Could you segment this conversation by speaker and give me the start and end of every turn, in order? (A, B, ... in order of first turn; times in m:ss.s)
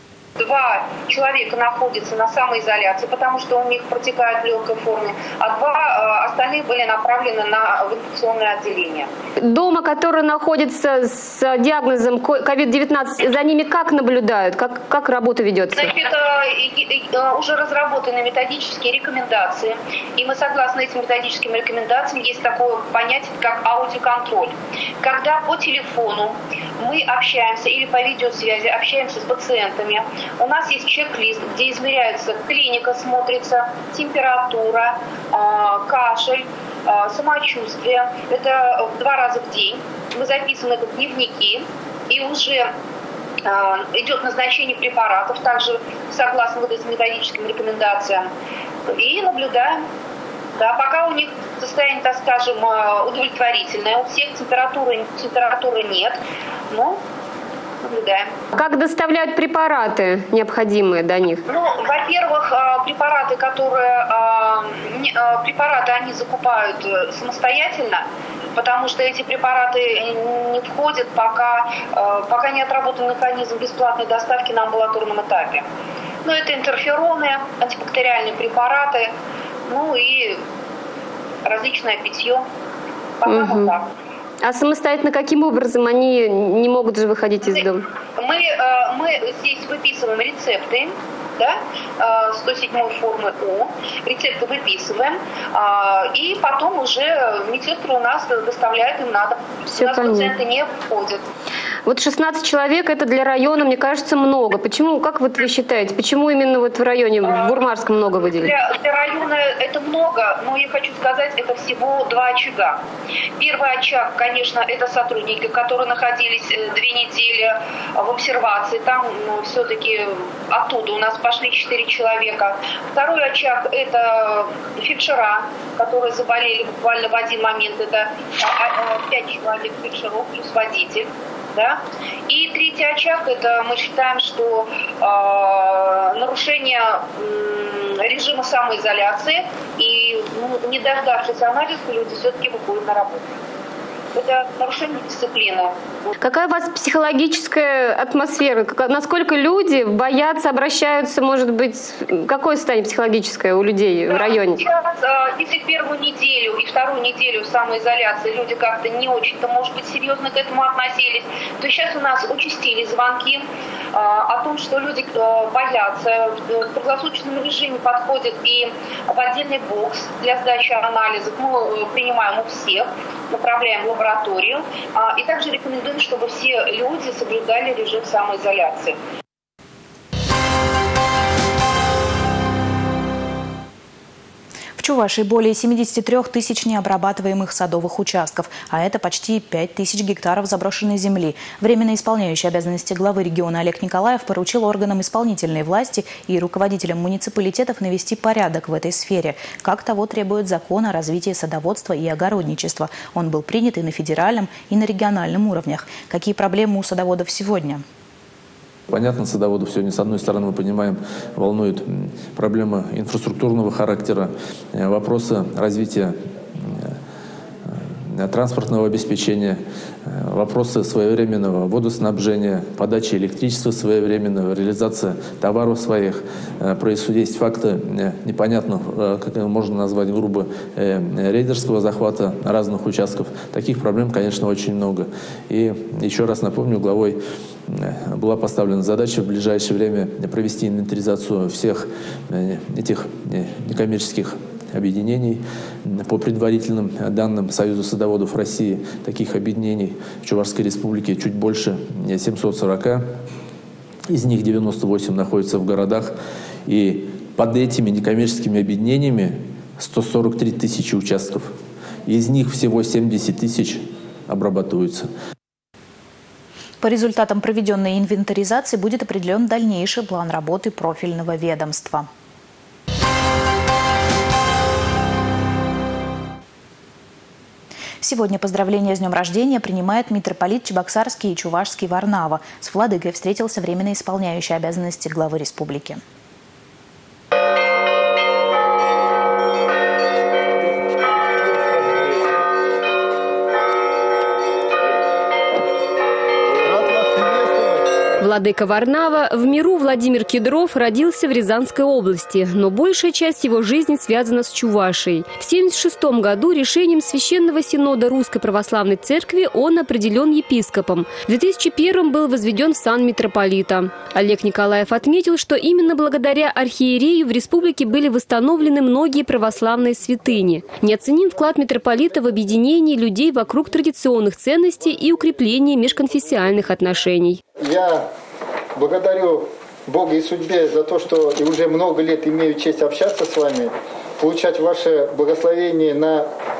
0:00.4-0:09.1 A
0:09.4-0:15.9 B
0:15.8-0:42.7 A
0:43.4-0:48.3 A
0:48.9-0:49.8 A
0:50.6-0:56.2 A
0:56.7-0:57.0 A
0:57.8-0:58.3 A
0:58.5-1:01.4 B
1:01.5-1:08.0 A
1:08.6-1:15.6 A
1:16.2-1:19.1 A
1:19.7-1:20.4 A
1:21.4-1:22.4 A
1:23.2-1:23.9 A
1:23.3-1:23.7 B
1:24.4-1:27.8 B
1:27.4-1:41.2 A
1:39.8-1:40.4 B
1:41.8-1:48.5 B
1:47.2-1:52.8 A
1:53.4-2:23.3 A
2:24.2-2:26.1 A
2:26.2-2:34.6 B
2:34.1-2:59.0 A
3:04.8-3:27.8 C
3:28.9-3:36.9 D
3:37.7-3:57.2 D
3:57.7-4:13.0 D
4:14.1-4:16.2 D
4:16.7-4:21.5 D
4:22.1-4:25.1 D
4:26.8-4:32.1 C
4:38.0-4:46.0 C
4:56.7-4:57.8 E
4:58.2-5:27.4 B
5:27.6-5:28.0 E
5:28.8-5:36.3 E